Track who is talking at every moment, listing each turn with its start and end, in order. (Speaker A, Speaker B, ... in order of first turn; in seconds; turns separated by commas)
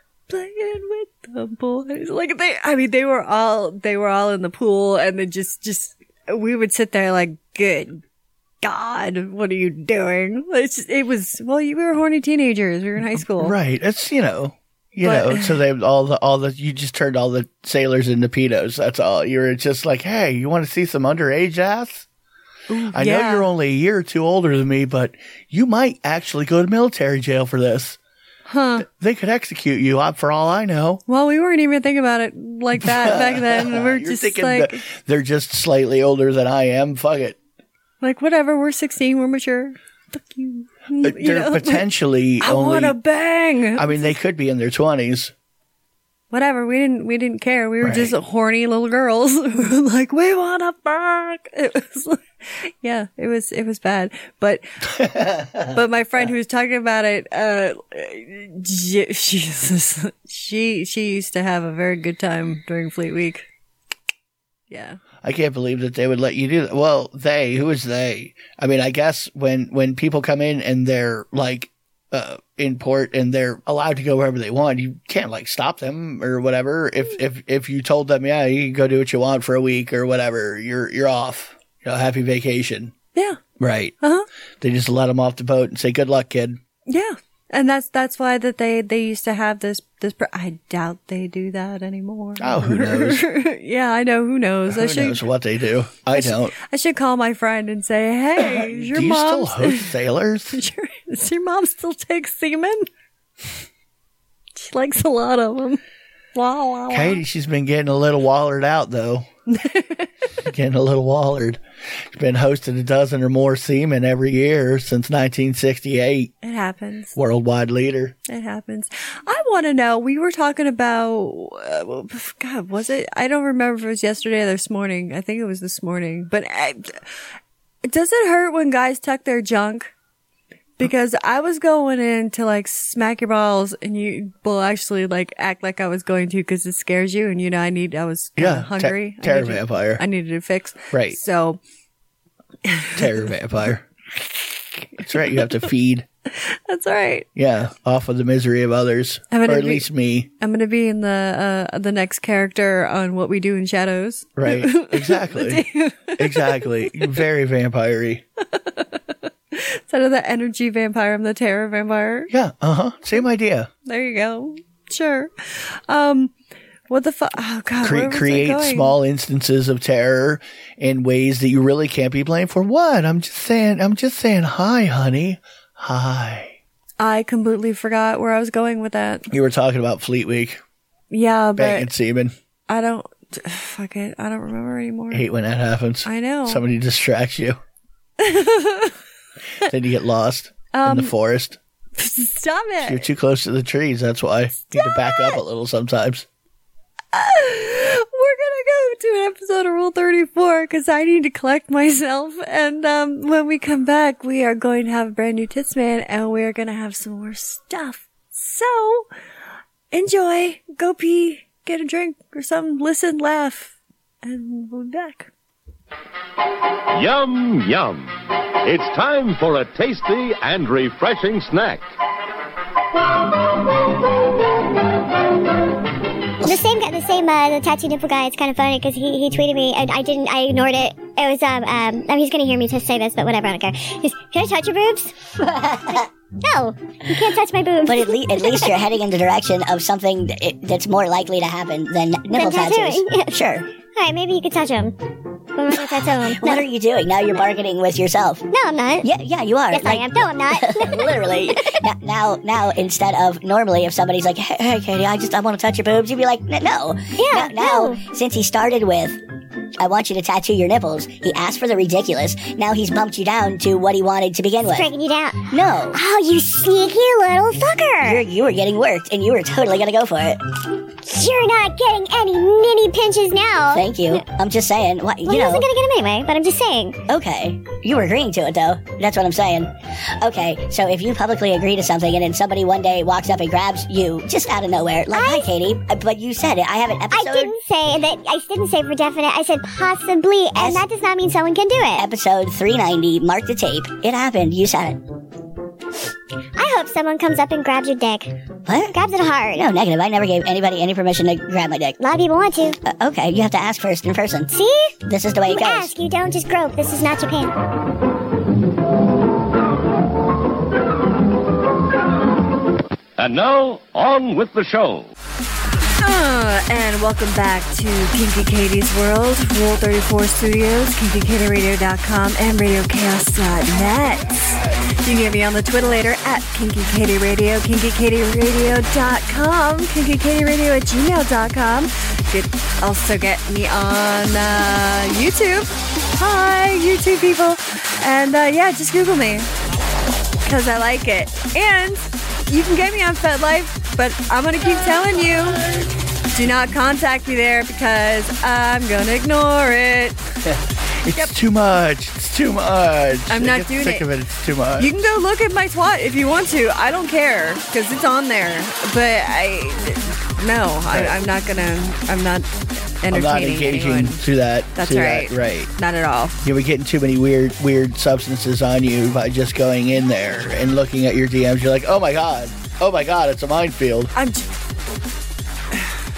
Speaker A: 0.3-8.0, Speaker A: 8.6-13.6, Speaker B: 13.1-22.1, Speaker A: 15.0-15.6, Speaker A: 22.7-23.5, Speaker B: 22.9-28.0, Speaker A: 28.5-28.9, Speaker B: 28.8-31.0, Speaker A: 31.1-34.8, Speaker B: 32.8-37.4, Speaker A: 38.0-41.9, Speaker B: 41.0-43.0, Speaker A: 42.4-44.1, Speaker B: 43.8-45.3, Speaker A: 46.3-54.8, Speaker B: 47.8-48.1, Speaker B: 54.9-55.8, Speaker A: 55.7-63.5, Speaker A: 64.7-65.0, Speaker B: 65.2-82.9, Speaker A: 83.2-83.4, Speaker B: 83.6-83.9, Speaker A: 84.0-84.3, Speaker B: 84.6-86.6, Speaker A: 86.9-95.2, Speaker B: 92.4-93.2, Speaker B: 94.7-96.5, Speaker A: 96.1-99.9, Speaker B: 98.4-100.6, Speaker A: 100.5-102.9, Speaker A: 104.6-105.8, Speaker A: 106.3-107.2, Speaker B: 106.9-109.3, Speaker A: 109.5-110.1, Speaker B: 110.4-116.3, Speaker A: 116.4-117.2, Speaker B: 117.2-118.2, Speaker A: 118.3-127.0, Speaker A: 127.8-129.9, Speaker A: 130.8-141.6, Speaker B: 138.4-140.0, Speaker B: 140.9-141.2, Speaker A: 142.7-143.3, Speaker B: 142.9-143.8, Speaker A: 145.0-145.7, Speaker B: 145.0-146.1, Speaker A: 146.3-147.3, Speaker B: 147.4-150.3, Speaker A: 149.3-149.9, Speaker A: 150.4-157.2, Speaker B: 154.4-155.7, Speaker B: 156.2-158.2, Speaker A: 158.5-158.9, Speaker A: 159.5-162.3, Speaker B: 162.3-163.7, Speaker A: 163.9-166.3, Speaker A: 166.9-169.0, Speaker B: 167.8-176.6, Speaker A: 177.0-179.3, Speaker B: 179.3-180.6, Speaker A: 181.1-181.9, Speaker B: 181.6-182.3, Speaker A: 182.7-185.2, Speaker B: 185.1-187.6, Speaker A: 186.1-186.6, Speaker A: 188.2-188.9, Speaker B: 189.6-191.6, Speaker A: 190.7-191.1, Speaker A: 192.0-193.1, Speaker B: 192.8-196.2, Speaker A: 194.7-195.4, Speaker A: 197.1-209.1, Speaker A: 209.9-215.3, Speaker C: 216.9-221.8, Speaker D: 226.4-235.2, Speaker E: 235.4-236.1, Speaker D: 236.0-238.8, Speaker E: 237.8-243.7, Speaker D: 242.3-243.4, Speaker D: 243.9-245.0, Speaker D: 245.6-246.7, Speaker E: 245.9-248.5, Speaker D: 248.5-249.1, Speaker E: 249.0-259.2, Speaker D: 249.7-251.8, Speaker D: 257.2-258.0, Speaker E: 259.8-264.9, Speaker D: 264.7-268.3, Speaker E: 265.5-266.0, Speaker E: 268.0-270.4, Speaker D: 271.1-274.3, Speaker E: 273.7-275.7, Speaker D: 275.2-277.0, Speaker E: 277.1-287.5, Speaker D: 285.1-285.5, Speaker D: 287.1-292.1, Speaker E: 290.6-290.8, Speaker E: 292.0-295.0, Speaker D: 296.6-299.7, Speaker E: 298.7-299.0, Speaker E: 299.5-302.0, Speaker D: 302.0-302.8, Speaker E: 302.8-304.5, Speaker D: 304.5-307.6, Speaker E: 305.1-305.9, Speaker C: 313.2-315.1, Speaker A: 316.0-339.5, Speaker A: 340.4-345.8, Speaker A: 346.3-350.2, Speaker B: 350.4-354.9, Speaker A: 353.3-354.1, Speaker A: 354.8-362.5, Speaker A: 363.0-366.4, Speaker B: 363.1-365.7, Speaker B: 366.4-374.1, Speaker A: 374.1-374.5